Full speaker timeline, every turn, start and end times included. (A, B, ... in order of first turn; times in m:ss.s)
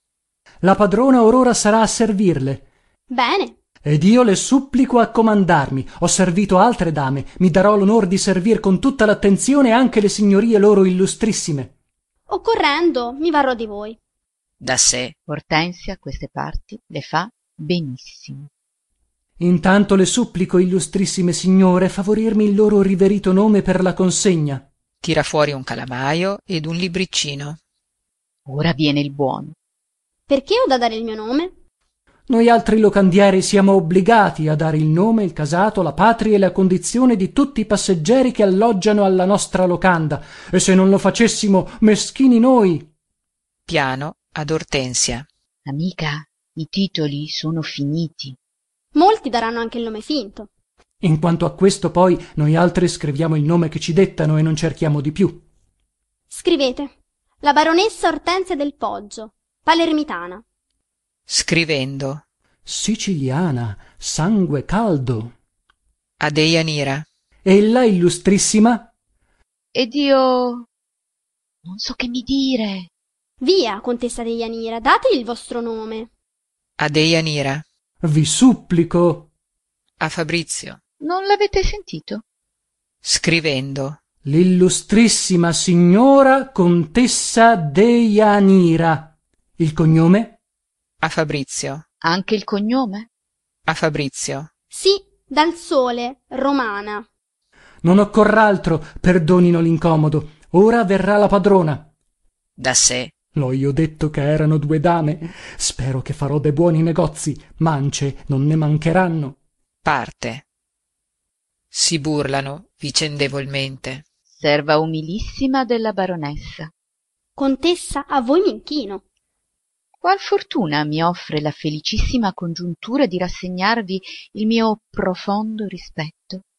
0:00.6-0:02.7 A
0:03.1-0:03.6 B
0:03.8-0:11.7 A
0:12.3-0:14.0 B
0:14.6-0:15.2 C
0:15.3-0:18.5 D
0:19.4-0:24.7 A
0:25.0-0:27.6 C
0:28.5-0:29.6 D
0:30.3-0:31.5 B
0:32.3-0:42.9 A
0:43.7-0:45.3 C
0:45.7-0:48.4 D
0:48.9-0:50.5 B
0:51.0-0:55.4 A
0:56.3-1:00.4 B
1:01.3-1:02.2 C
1:02.7-1:05.3 A
1:06.2-1:07.1 C
1:07.4-1:08.9 A
1:09.8-1:10.7 D
1:11.6-1:12.9 D
1:13.4-1:16.1 B
1:16.8-1:17.6 C
1:18.0-1:19.3 A
1:20.0-1:20.8 C
1:21.0-1:22.2 D
1:23.0-1:24.0 C
1:24.2-1:30.4 A
1:31.0-1:31.8 C
1:32.0-1:33.1 D
1:33.7-1:34.5 C
1:34.7-1:37.1 B
1:37.8-1:41.9 A
1:42.6-1:43.1 C
1:43.4-1:49.4 A
1:49.8-1:50.4 C
1:51.7-1:54.0 C
1:54.3-1:56.7 D
1:57.4-1:59.0 B
2:00.0-2:06.4 D